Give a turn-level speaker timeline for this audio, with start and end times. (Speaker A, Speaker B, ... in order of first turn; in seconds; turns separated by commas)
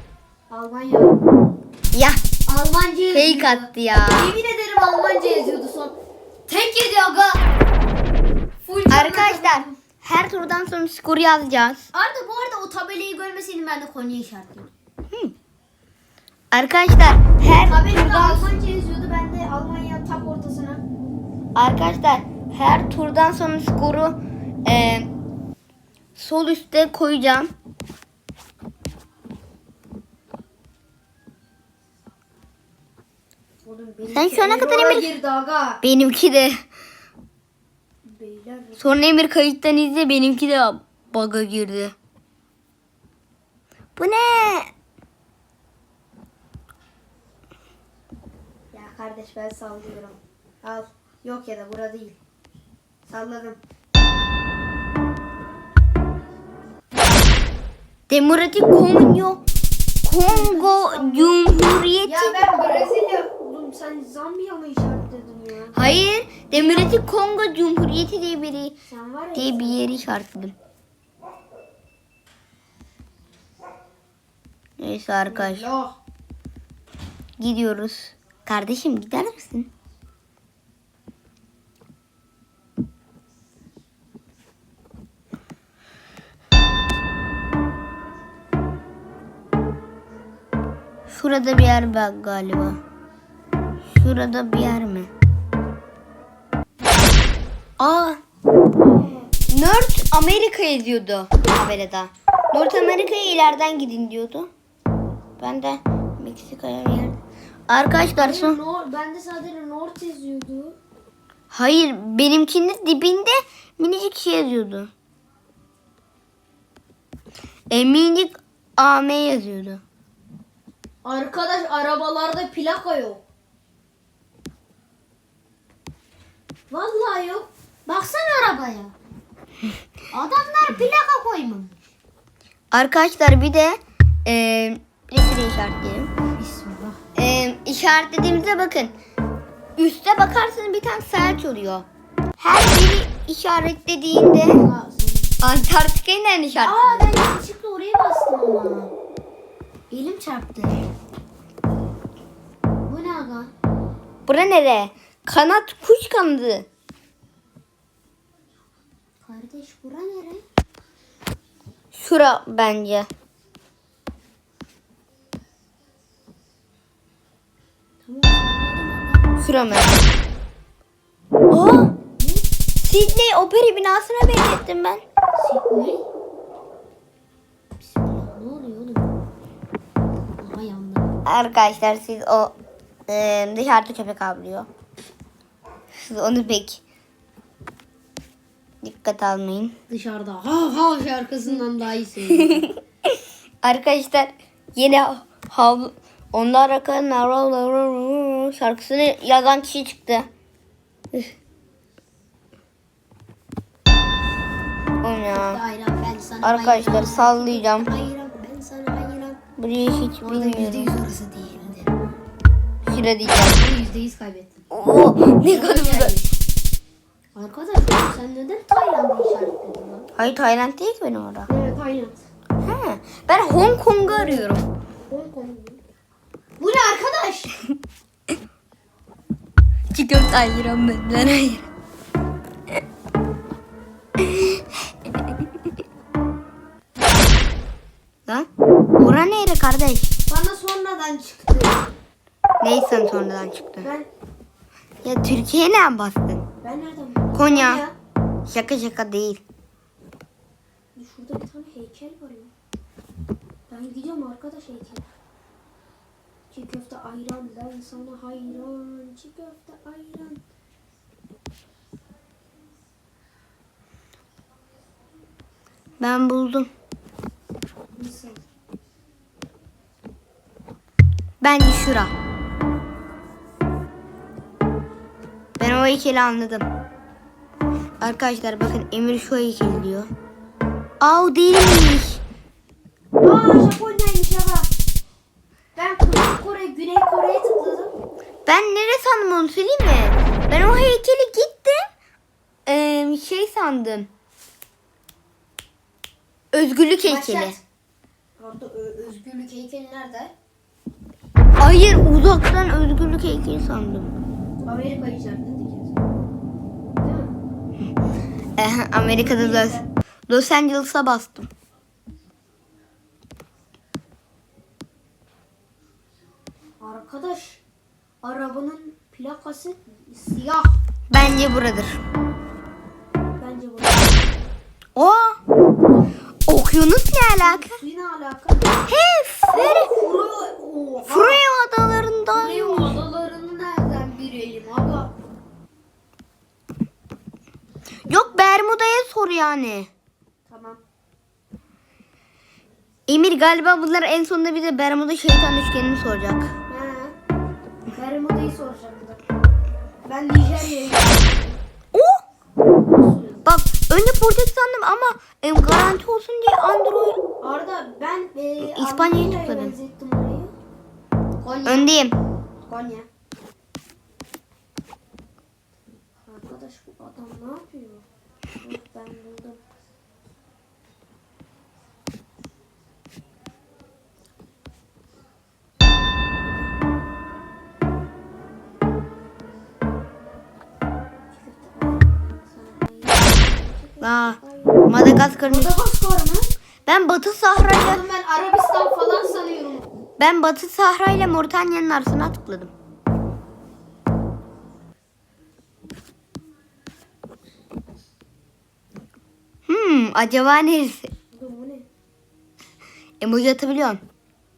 Speaker A: 0.5-1.2, Speaker B: 1.9-2.2, Speaker A: 2.5-6.0, Speaker B: 3.1-4.3, Speaker A: 6.5-7.4, Speaker A: 8.7-9.8, Speaker B: 8.9-11.9, Speaker A: 11.9-14.7, Speaker B: 16.5-18.5, Speaker A: 17.6-20.8, Speaker B: 21.6-25.1, Speaker B: 26.2-27.5, Speaker A: 33.6-35.8, Speaker B: 34.1-35.1, Speaker B: 35.8-36.6, Speaker A: 38.1-38.9, Speaker B: 38.8-41.9, Speaker B: 44.0-44.7, Speaker A: 48.7-52.2, Speaker A: 53.1-53.6, Speaker B: 58.1-59.4, Speaker B: 60.0-62.9, Speaker A: 60.2-61.4, Speaker A: 62.0-65.8, Speaker B: 65.8-68.8, Speaker A: 66.5-67.0, Speaker A: 68.9-69.8, Speaker B: 69.3-70.5, Speaker B: 74.8-75.7, Speaker A: 75.3-76.0, Speaker B: 77.4-79.7, Speaker B: 91.1-92.8, Speaker B: 93.9-95.1, Speaker B: 97.8-98.2, Speaker A: 98.8-99.3, Speaker B: 99.5-104.5, Speaker B: 105.4-107.2, Speaker B: 107.7-108.6, Speaker A: 108.2-110.8, Speaker B: 111.5-114.9, Speaker B: 117.7-119.8, Speaker A: 121.0-123.2, Speaker A: 126.7-128.9, Speaker A: 130.1-131.8, Speaker B: 132.7-136.1, Speaker A: 136.3-137.0, Speaker B: 137.2-138.9, Speaker B: 139.8-141.9, Speaker B: 142.4-144.6, Speaker A: 144.5-145.3, Speaker B: 145.4-147.1, Speaker A: 146.6-148.9, Speaker A: 149.9-150.9, Speaker A: 152.9-153.5, Speaker B: 154.3-156.7, Speaker A: 159.2-160.4, Speaker B: 161.9-163.1, Speaker A: 168.1-169.3, Speaker B: 169.4-170.1, Speaker B: 171.5-171.9, Speaker A: 172.2-172.5, Speaker B: 172.8-175.0, Speaker A: 175.4-176.0, Speaker A: 177.8-179.1, Speaker A: 180.4-181.1, Speaker B: 181.2-182.5, Speaker B: 183.1-184.7, Speaker B: 186.0-186.8, Speaker B: 188.8-189.8, Speaker A: 189.9-192.7, Speaker B: 193.6-200.3, Speaker B: 205.0-205.6, Speaker A: 205.3-209.4, Speaker B: 206.4-207.9, Speaker B: 209.6-210.9, Speaker A: 210.2-212.0, Speaker B: 212.9-213.6, Speaker A: 213.6-214.6, Speaker B: 214.7-216.1, Speaker A: 215.4-216.3, Speaker A: 217.3-220.1, Speaker B: 220.2-221.5, Speaker A: 221.5-222.2, Speaker B: 222.6-224.7, Speaker A: 224.0-224.5, Speaker A: 225.1-225.8, Speaker A: 226.6-227.6, Speaker B: 229.9-231.7, Speaker B: 234.2-234.6, Speaker B: 239.0-240.1, Speaker A: 240.3-241.8, Speaker B: 242.6-243.9, Speaker A: 243.8-244.1, Speaker B: 245.0-246.4, Speaker A: 246.6-247.9, Speaker B: 247.3-247.8, Speaker B: 248.5-249.4, Speaker A: 251.0-252.5, Speaker A: 253.7-255.1, Speaker A: 256.5-260.4, Speaker B: 266.0-266.7, Speaker A: 268.0-268.4, Speaker B: 271.4-272.1, Speaker B: 275.6-276.7, Speaker B: 278.0-280.1, Speaker B: 281.0-282.2, Speaker A: 283.2-284.7, Speaker A: 285.8-287.9, Speaker B: 288.5-291.8, Speaker B: 292.7-294.1, Speaker B: 296.5-297.6, Speaker A: 297.0-297.6, Speaker A: 298.4-300.3, Speaker B: 301.6-304.1, Speaker A: 304.6-306.0, Speaker A: 307.0-307.4, Speaker B: 308.6-311.5, Speaker A: 309.1-309.9, Speaker A: 316.8-317.6, Speaker A: 318.2-320.8, Speaker B: 321.1-322.0, Speaker A: 323.4-324.2, Speaker B: 325.0-325.4, Speaker A: 325.9-326.1, Speaker B: 326.5-327.8, Speaker A: 327.4-328.7, Speaker B: 328.9-329.9, Speaker A: 329.5-331.4, Speaker B: 331.1-333.0, Speaker A: 332.3-335.1, Speaker B: 338.1-339.9, Speaker A: 340.5-340.8, Speaker B: 343.1-346.5, Speaker A: 346.7-347.1, Speaker A: 347.9-349.2, Speaker A: 350.1-351.6, Speaker B: 351.9-352.2, Speaker A: 352.9-353.4, Speaker B: 353.4-357.2, Speaker A: 357.4-360.5, Speaker B: 358.6-359.8, Speaker A: 361.4-361.9, Speaker B: 361.7-362.2, Speaker A: 362.7-363.1, Speaker A: 366.3-368.0, Speaker A: 368.6-369.6, Speaker A: 376.4-376.7, Speaker A: 381.3-384.9, Speaker B: 384.0-385.7, Speaker A: 385.5-386.5, Speaker B: 386.9-388.0, Speaker A: 387.8-389.9, Speaker B: 390.2-392.7, Speaker B: 399.7-401.1, Speaker A: 401.3-401.9, Speaker B: 403.2-404.0